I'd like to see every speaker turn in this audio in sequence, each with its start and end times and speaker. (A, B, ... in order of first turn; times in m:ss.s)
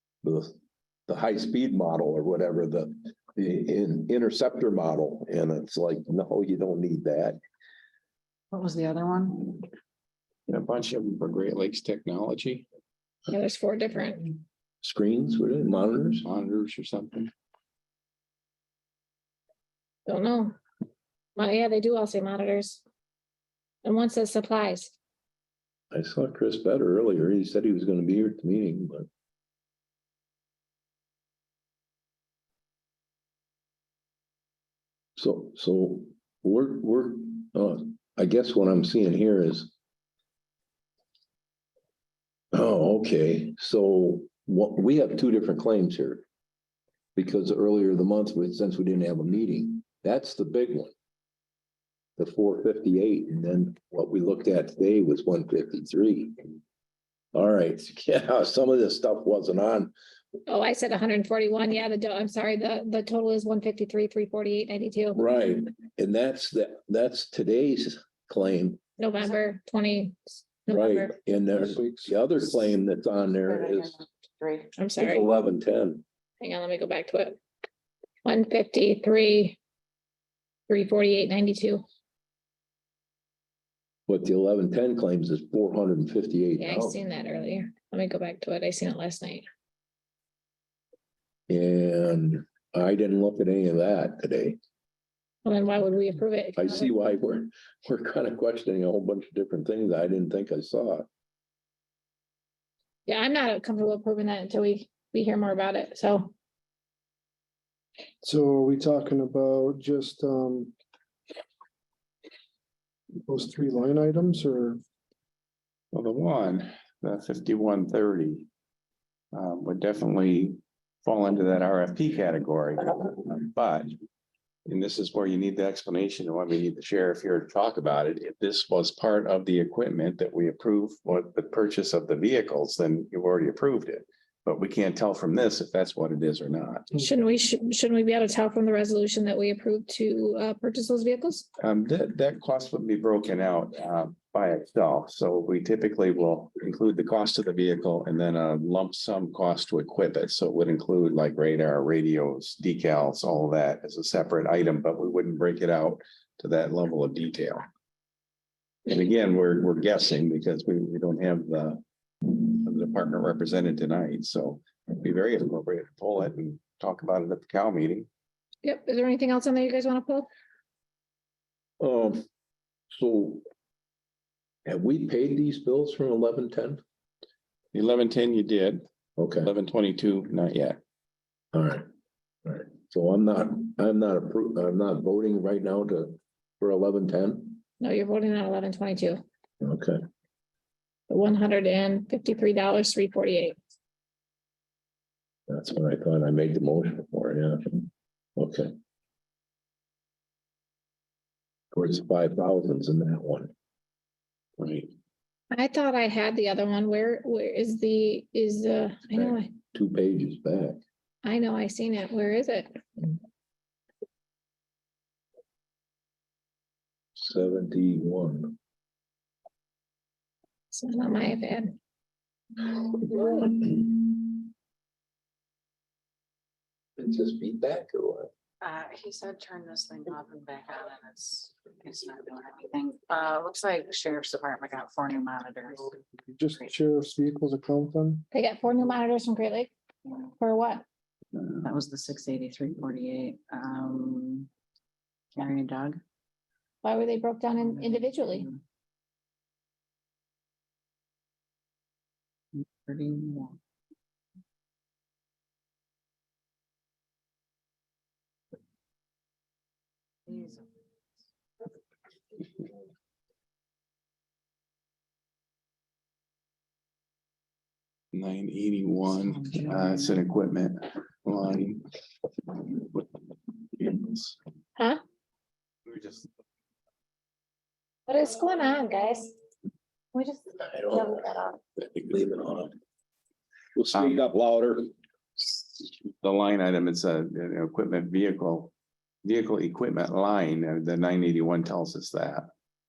0:00.2-0:00.5 A
0:01.1-0:07.4 A
0:08.5-0:09.7 B
0:10.5-0:12.6 C
0:13.3-0:14.4 D
0:14.8-0:16.3 A
0:16.2-0:17.3 C
0:20.1-0:20.5 D
0:21.4-0:22.8 D
0:23.8-0:24.9 D
0:25.9-0:29.1 A
0:35.2-0:39.7 A
0:42.5-0:46.2 A
0:47.2-0:50.9 A
0:52.2-0:56.4 A
0:57.3-0:59.9 A
1:00.5-1:05.2 D
1:05.1-1:08.8 A
1:09.0-1:11.2 D
1:10.7-1:14.0 A
1:11.5-1:12.6 E
1:13.4-1:14.7 B
1:14.8-1:15.3 D
1:15.0-1:16.0 A
1:16.4-1:17.4 D
1:18.2-1:19.6 D
1:20.7-1:21.8 D
1:24.1-1:27.0 A
1:26.6-1:29.4 D
1:31.5-1:34.6 A
1:35.4-1:36.9 D
1:36.6-1:41.0 A
1:43.1-1:46.3 D
1:48.2-1:50.7 E
1:53.2-1:54.8 E
1:55.9-1:58.5 C
1:59.3-2:03.9 C
2:04.6-2:16.9 C
2:16.9-2:21.5 D
2:21.6-2:37.6 C
2:38.9-2:48.1 C
2:48.6-2:50.3 D
2:51.8-2:52.2 A
2:52.9-2:53.4 A
2:54.6-2:56.8 A
2:57.7-2:58.8 C
2:59.2-2:59.5 A
2:59.4-3:00.8 C
3:01.5-3:01.8 A
3:02.4-3:07.6 A
3:07.8-3:09.2 D
3:09.6-3:10.0 A
3:11.1-3:13.6 D
3:15.5-3:18.7 A
3:21.7-3:23.5 A
3:24.6-3:24.9 C
3:25.5-3:29.5 D
3:29.2-3:30.8 A
3:31.2-3:32.7 D
3:37.2-3:38.6 A
3:40.7-3:41.8 D
3:42.7-3:44.3 A
3:47.0-3:48.3 A
3:48.6-3:56.0 B
3:56.3-3:58.2 E
3:58.3-3:59.7 D
4:00.4-4:00.8 D
4:01.6-4:04.5 B
4:05.3-4:06.0 B
4:06.8-4:08.5 D
4:07.7-4:08.6 B
4:12.5-4:13.6 B
4:20.3-4:20.7 B
4:28.1-4:31.8 C
4:29.2-4:30.2 B
4:32.5-4:34.4 C
4:35.8-4:36.3 C
4:38.1-4:39.3 D
4:40.1-4:41.6 D
4:40.7-4:41.2 A
4:41.8-4:42.7 A
4:43.8-4:44.9 A
4:43.9-4:44.2 C
4:45.4-4:48.7 C
4:49.2-4:52.5 C